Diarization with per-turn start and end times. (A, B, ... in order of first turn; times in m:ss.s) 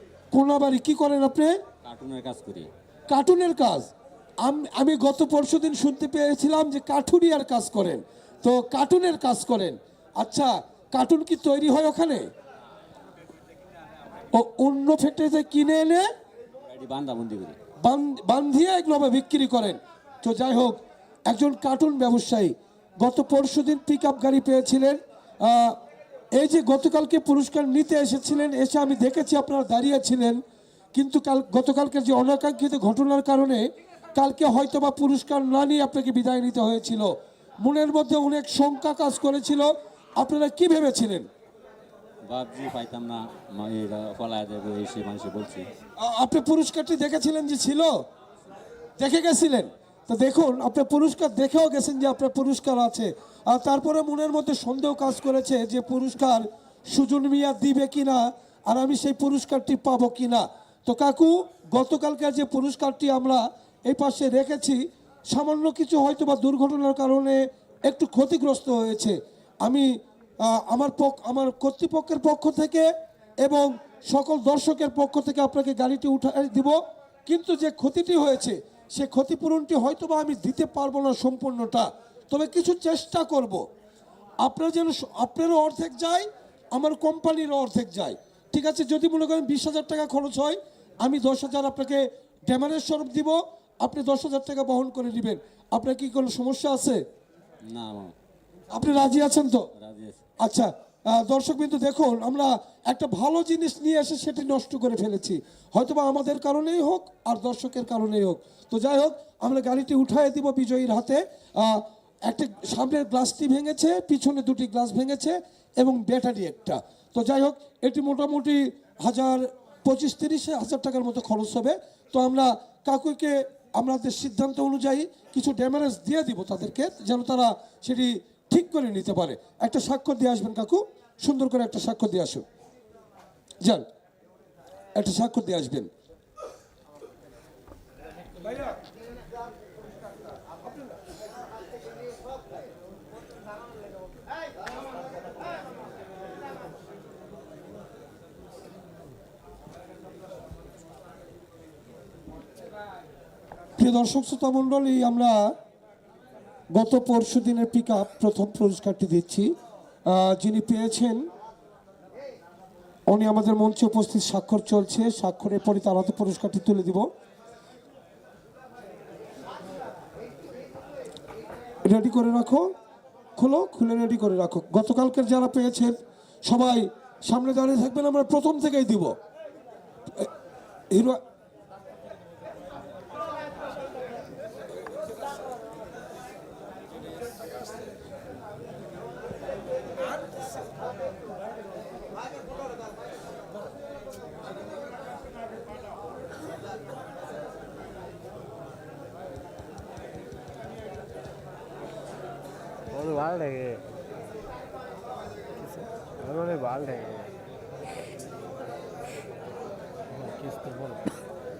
0:00.3-0:01.6 A
0:01.8-0:02.7 B
0:03.1-0:03.9 A
0:04.4-0:12.3 A
0:14.3-0:16.1 A
0:16.7-0:17.6 B
0:17.8-0:25.8 A
0:26.4-0:30.4 A
0:31.0-0:41.3 A
0:42.3-0:45.7 B
0:46.0-0:48.0 A
0:49.0-1:09.9 A
1:10.4-1:12.9 A
1:13.4-1:23.6 A
1:24.4-1:37.0 A
1:37.6-1:38.1 B
1:38.7-1:39.7 A
1:39.7-1:40.2 B
1:40.4-2:12.4 A
2:15.0-2:15.9 A
2:33.8-2:35.6 A
2:36.7-2:39.5 A
2:40.1-2:41.3 A
2:43.1-2:47.1 A
2:51.8-2:52.6 A
2:53.4-2:59.2 A
3:00.9-3:01.2 A
3:22.9-3:23.8 C
3:25.6-3:27.3 C
3:30.1-3:31.1 C